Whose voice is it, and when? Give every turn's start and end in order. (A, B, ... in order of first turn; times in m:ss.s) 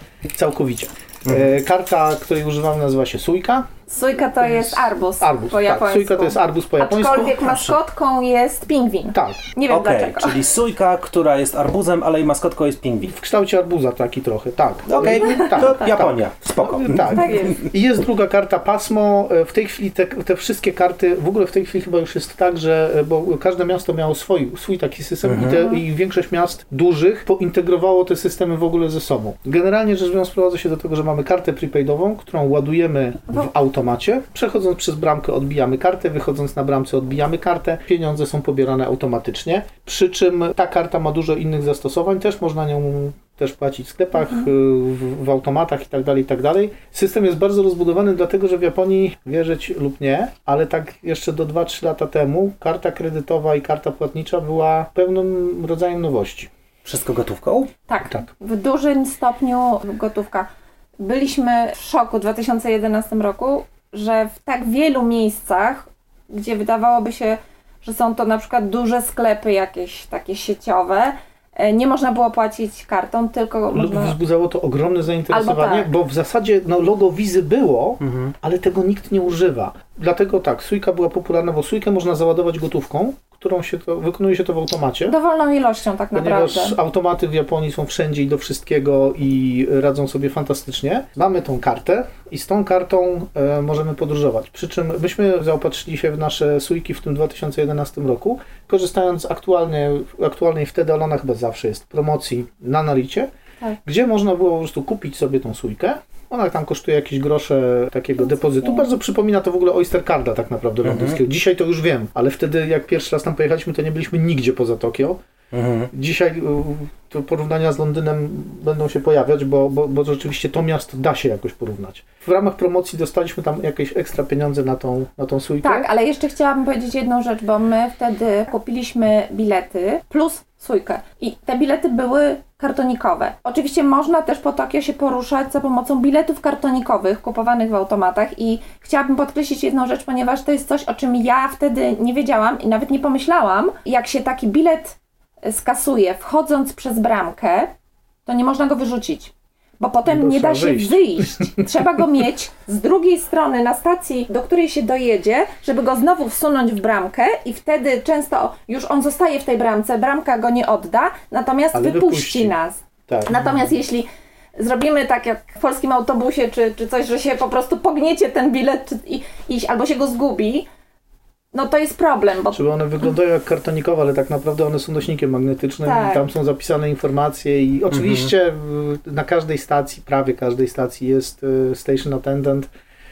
0:00.3-0:03.7 A
0:01.3-0:01.5 B
0:03.9-0:10.4 C
0:04.4-0:07.5 A
0:07.4-0:07.8 B
0:09.1-0:09.5 A
0:09.7-0:13.1 B
0:13.0-0:56.5 A
0:14.9-0:17.6 B
0:17.1-0:17.6 C
0:25.2-0:25.7 B
0:56.8-0:57.7 B
0:57.9-1:00.5 C
1:01.0-1:14.2 C
1:13.7-1:25.1 A
1:15.3-1:15.9 C
1:18.0-1:18.3 B
1:25.0-1:26.8 C
1:26.1-1:43.3 A
1:43.8-1:55.2 A
1:48.2-1:48.9 C
1:50.8-1:51.2 B
1:55.5-1:55.9 B
1:55.9-2:05.9 A
2:05.6-2:27.7 C
2:28.2-2:50.7 C
2:30.0-2:31.6 A
2:41.7-2:42.5 A
2:43.1-2:43.8 A
2:51.5-2:52.6 C
2:52.5-3:02.7 A
2:55.8-2:56.3 C
2:57.9-2:58.3 B